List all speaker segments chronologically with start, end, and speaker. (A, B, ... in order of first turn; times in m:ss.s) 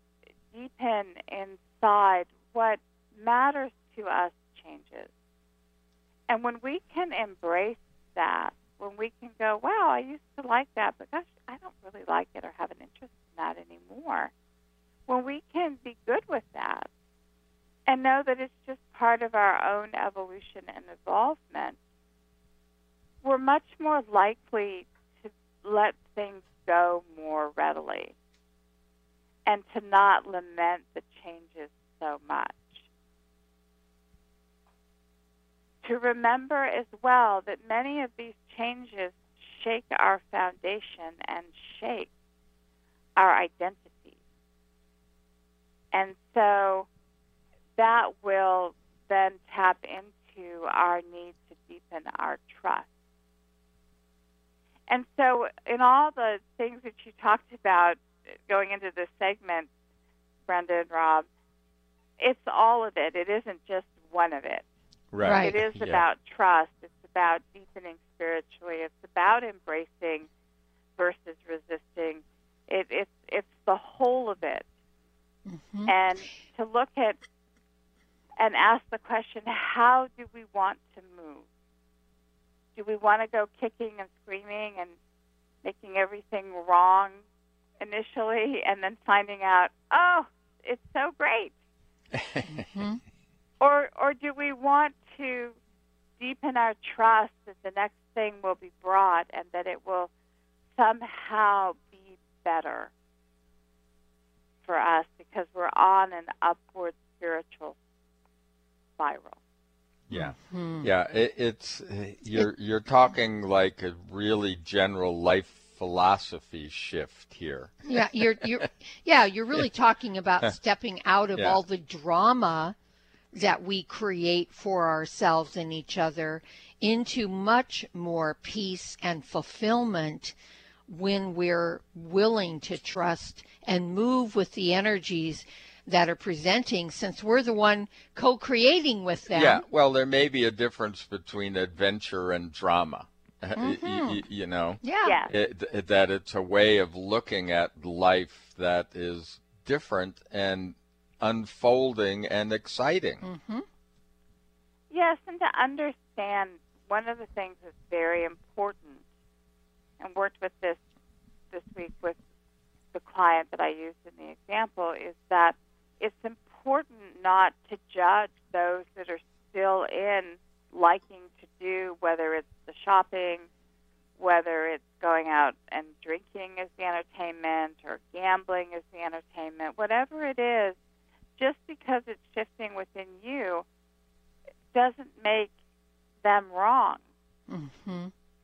0:00.5-0:05.1 A
0:06.3-0:14.3 A
0:15.1-0:16.9 A
0:17.9-0:21.8 A
0:23.2-0:28.1 A
0:29.5-0:32.8 A
0:35.8-0:42.1 A
0:43.2-0:44.2 A
0:45.9-0:46.9 A
0:47.8-0:52.9 A
0:54.9-0:59.7 A
1:00.5-1:01.3 A
1:02.2-1:04.6 A
1:05.1-1:06.0 B
1:05.2-1:05.6 C
1:05.4-1:10.3 A
1:11.0-1:14.7 A
1:15.5-1:15.9 C
1:15.9-1:17.2 A
1:18.4-1:21.4 A
1:22.8-1:25.0 A
1:25.6-1:27.2 A
1:27.8-1:31.5 A
1:32.4-1:33.0 C
1:33.6-1:35.6 A
1:36.2-1:40.1 A
1:40.8-1:42.9 A
1:44.7-1:47.8 A
1:49.0-1:49.4 A
1:50.1-1:57.8 B
1:50.1-1:50.9 C
1:57.9-2:02.8 C
2:03.3-2:10.4 C
2:10.9-2:19.6 C
2:19.3-2:33.2 B
2:23.6-2:24.2 C
2:24.8-2:25.2 C
2:25.0-2:25.3 A
2:33.2-2:33.7 C
2:34.9-2:39.0 A
2:40.0-2:40.8 A
2:41.5-2:42.2 A
2:42.9-2:53.5 A
2:54.2-3:00.8 A
3:01.4-3:03.6 A
3:04.7-3:05.5 A
3:06.2-3:07.0 A
3:07.5-3:08.1 C